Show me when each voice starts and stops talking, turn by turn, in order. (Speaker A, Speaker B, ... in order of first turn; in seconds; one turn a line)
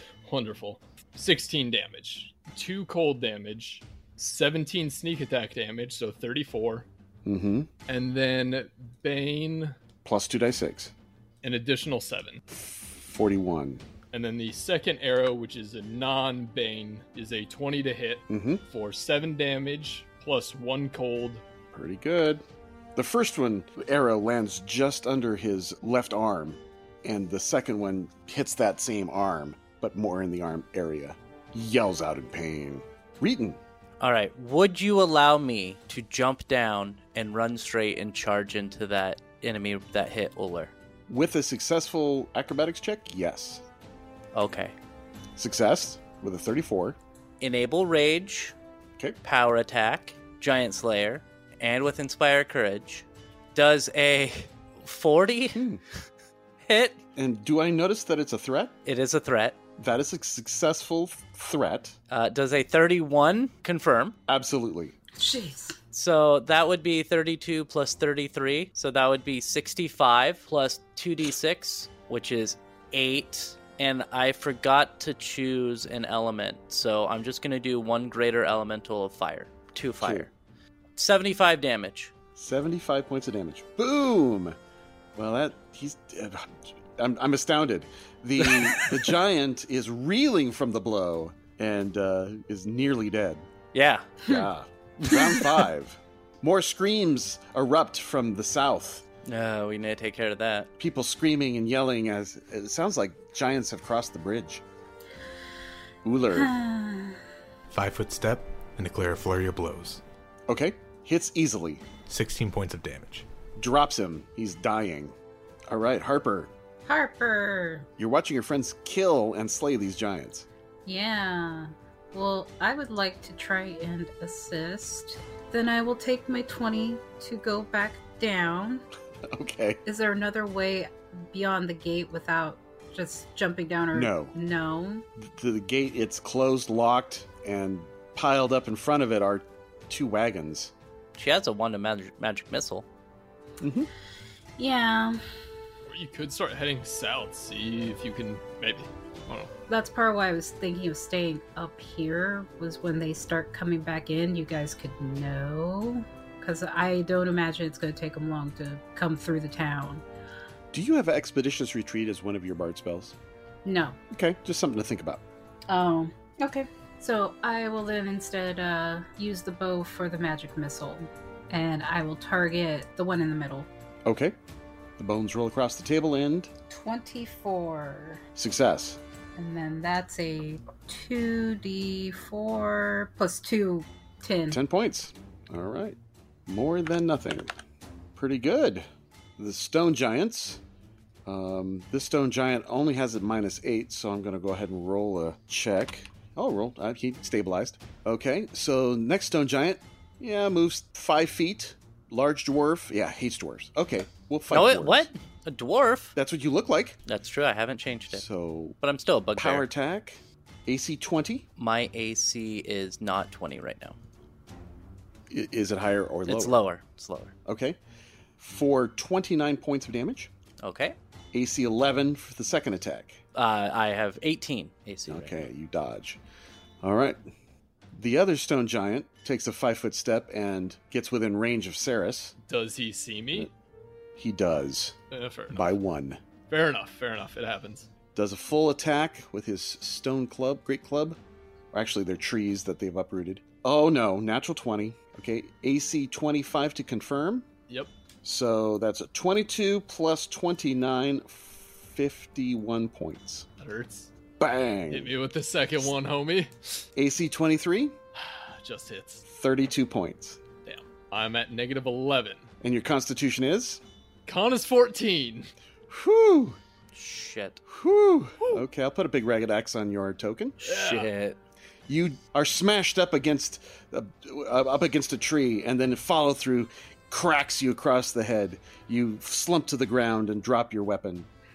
Speaker A: 0.2-6.9
Speaker B: 7.2-7.7
Speaker A: 7.9-9.8
Speaker B: 10.1-10.9
Speaker A: 11.4-12.4
Speaker B: 12.5-13.8
Speaker A: 14.1-21.4
Speaker B: 18.3-18.6
Speaker B: 21.7-22.4
Speaker B: 23.0-33.6
Speaker C: 34.0-40.7
Speaker B: 41.1-43.6
Speaker C: 44.3-44.7
Speaker B: 45.4-47.0
Speaker C: 47.4-48.5
Speaker C: 49.2-55.7
Speaker B: 55.5-55.8
Speaker C: 56.6-57.0
Speaker B: 57.2-58.7
Speaker C: 58.9-59.6
Speaker B: 59.8-62.0
Speaker C: 62.1-64.2
Speaker B: 64.3-65.0
Speaker D: 65.2-65.8
Speaker C: 65.9-80.3
Speaker B: 80.0-80.3
Speaker C: 81.0-82.1
Speaker B: 82.4-84.6
Speaker B: 85.2-93.5
Speaker C: 93.7-94.1
Speaker B: 94.2-99.0
Speaker D: 95.1-95.4
Speaker C: 99.2-100.7
Speaker B: 100.8-104.6
Speaker B: 106.0-106.5
Speaker D: 106.3-107.2
Speaker E: 107.7-110.0
Speaker B: 110.5-111.8
Speaker E: 112.1-113.2
Speaker B: 113.6-115.2
Speaker B: 115.7-116.5
Speaker D: 116.8-117.9
Speaker B: 118.0-120.5
Speaker D: 120.9-128.8
Speaker B: 129.3-129.8
Speaker D: 129.8-135.0
Speaker B: 133.9-134.3
Speaker B: 135.2-140.7
Speaker C: 141.2-142.9
Speaker B: 143.6-143.9
Speaker D: 144.6-145.2
Speaker A: 145.9-149.5
Speaker D: 149.7-160.1
Speaker B: 160.7-163.2
Speaker D: 163.7-164.0
Speaker B: 164.1-165.2
Speaker D: 165.7-173.7
Speaker B: 174.1-174.3
Speaker B: 175.0-176.5
Speaker D: 176.7-178.2
Speaker B: 178.3-179.0
Speaker D: 179.4-184.6
Speaker B: 184.5-187.5
Speaker B: 188.2-188.9
Speaker B: 189.4-190.6
Speaker B: 191.2-205.1
Speaker C: 204.5-206.2
Speaker B: 206.2-207.0
Speaker C: 207.1-208.2
Speaker B: 208.1-208.8
Speaker C: 208.8-209.7
Speaker B: 209.4-211.4
Speaker C: 211.6-214.0
Speaker B: 215.3-216.6
Speaker C: 216.3-217.3
Speaker B: 217.5-217.8
Speaker B: 218.4-220.3
Speaker C: 220.6-220.9
Speaker B: 221.3-223.2
Speaker C: 223.3-225.5
Speaker B: 225.1-226.2
Speaker B: 226.8-227.2
Speaker B: 227.9-232.3
Speaker A: 232.4-233.5
Speaker B: 234.2-234.9
Speaker A: 235.1-235.7
Speaker B: 235.5-236.2
Speaker A: 236.5-237.9
Speaker B: 238.2-241.2
Speaker B: 241.7-247.5
Speaker B: 248.2-253.5
Speaker A: 253.6-254.1
Speaker B: 254.4-255.1
Speaker A: 254.9-256.7
Speaker B: 257.0-258.0
Speaker A: 258.1-259.2
Speaker B: 259.3-260.4
Speaker A: 260.6-262.5
Speaker B: 262.6-263.8
Speaker A: 264.3-265.5
Speaker B: 265.9-266.6
Speaker C: 266.9-267.6
Speaker B: 267.7-270.6
Speaker A: 270.6-271.1
Speaker C: 270.6-271.4
Speaker B: 271.9-281.3